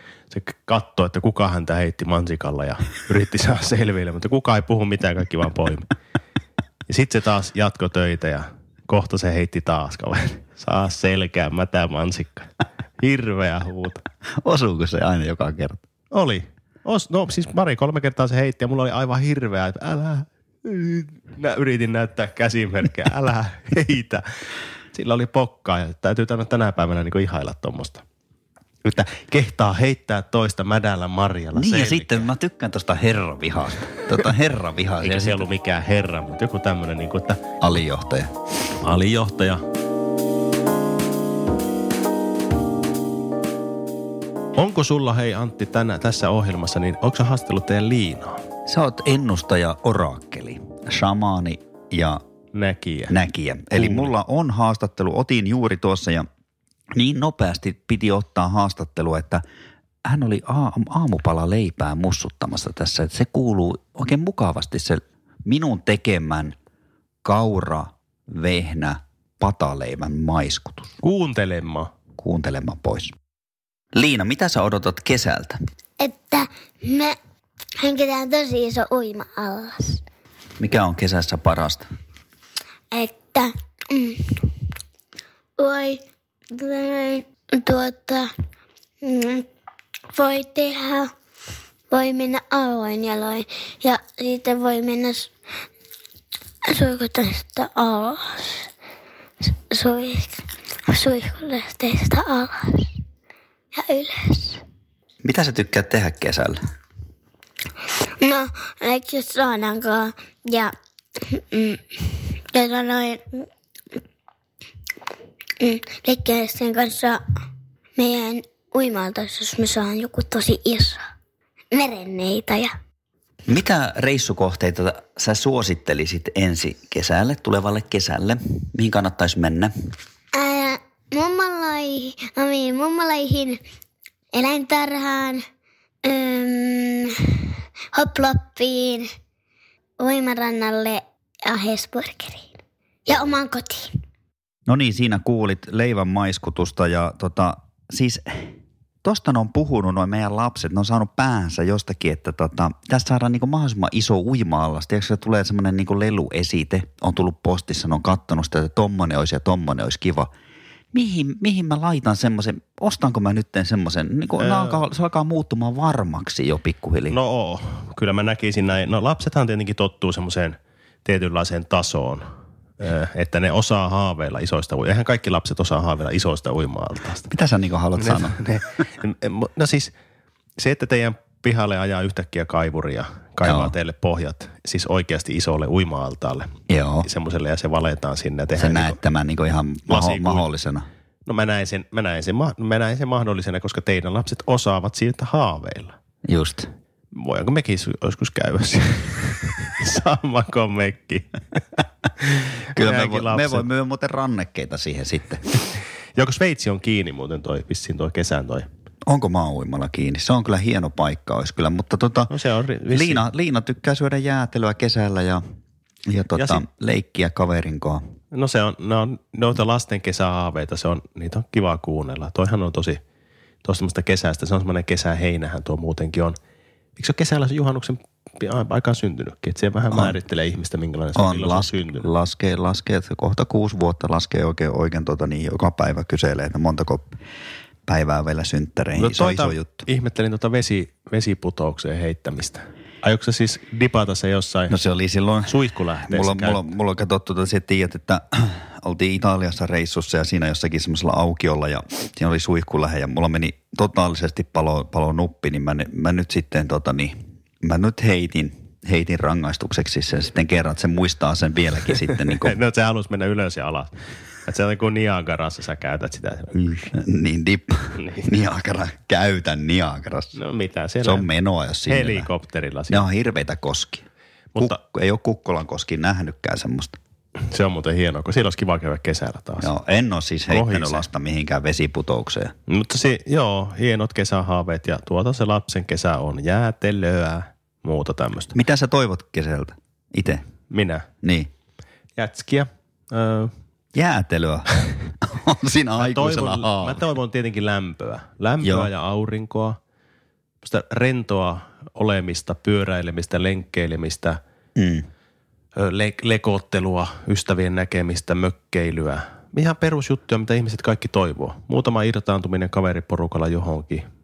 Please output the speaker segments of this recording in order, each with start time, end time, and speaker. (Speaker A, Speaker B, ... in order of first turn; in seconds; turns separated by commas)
Speaker A: 0.3-5.9, Speaker A: 6.9-14.0, Speaker B: 14.3-15.8, Speaker A: 16.1-24.2, Speaker A: 24.9-28.0, Speaker A: 28.8-32.3, Speaker B: 31.5-35.4, Speaker A: 35.0-37.6, Speaker B: 37.6-38.3, Speaker A: 38.8-39.6, Speaker A: 44.5-48.4, Speaker B: 48.6-52.2, Speaker A: 52.5-53.1, Speaker B: 53.1-56.3, Speaker A: 53.7-54.1, Speaker B: 56.9-59.4, Speaker B: 60.0-66.5, Speaker B: 67.2-70.9, Speaker A: 71.0-71.9, Speaker B: 72.2-73.1, Speaker B: 73.9-75.6, Speaker C: 76.0-77.2, Speaker C: 77.8-80.0, Speaker B: 80.6-81.9, Speaker C: 82.9-84.5, Speaker C: 85.6-88.3, Speaker C: 89.0-89.5, Speaker C: 90.1-91.1, Speaker C: 91.9-95.3, Speaker C: 96.7-98.7, Speaker C: 99.4-103.0, Speaker C: 103.7-104.6, Speaker B: 105.2-106.6, Speaker C: 108.2-113.5, Speaker C: 115.6-117.2, Speaker C: 118.0-121.0, Speaker C: 121.7-122.7, Speaker B: 123.5-129.7, Speaker C: 130.3-133.6, Speaker C: 134.3-135.4, Speaker C: 136.0-139.1, Speaker C: 140.0-142.5, Speaker C: 143.1-144.0, Speaker B: 144.7-148.5, Speaker B: 149.0-160.3, Speaker B: 160.9-167.2, Speaker A: 164.4-164.8, Speaker A: 167.1-172.2, Speaker A: 172.8-177.3, Speaker B: 177.3-178.4, Speaker A: 177.9-179.9, Speaker A: 180.6-189.0, Speaker B: 183.4-183.7, Speaker B: 186.7-187.1, Speaker B: 188.5-190.8, Speaker A: 189.9-190.4, Speaker A: 191.2-196.0, Speaker B: 196.3-196.7, Speaker A: 197.1-203.7, Speaker B: 202.7-205.6, Speaker A: 206.1-208.7, Speaker B: 209.0-212.3, Speaker A: 212.3-213.2, Speaker B: 212.9-215.4, Speaker B: 216.1-218.0, Speaker A: 216.3-216.6, Speaker A: 218.3-223.0, Speaker A: 223.6-226.4, Speaker A: 227.0-232.1, Speaker B: 231.2-237.1, Speaker B: 237.8-239.9, Speaker A: 239.0-244.7, Speaker B: 244.7-262.6, Speaker A: 245.4-246.7, Speaker A: 262.1-263.9, Speaker A: 264.4-266.9, Speaker B: 266.9-270.4, Speaker A: 268.0-268.3, Speaker A: 270.3-271.3, Speaker B: 271.0-272.3, Speaker A: 271.9-273.0, Speaker B: 272.9-274.0, Speaker B: 274.6-277.0, Speaker A: 277.4-279.7, Speaker B: 279.6-282.5, Speaker A: 280.5-281.1, Speaker A: 282.7-288.5, Speaker B: 288.5-290.5, Speaker A: 290.7-291.1, Speaker B: 291.2-291.5, Speaker A: 292.1-293.5, Speaker B: 293.9-297.1, Speaker A: 296.0-299.8, Speaker B: 298.6-298.9, Speaker A: 300.6-304.4, Speaker B: 304.8-305.1, Speaker A: 305.7-314.1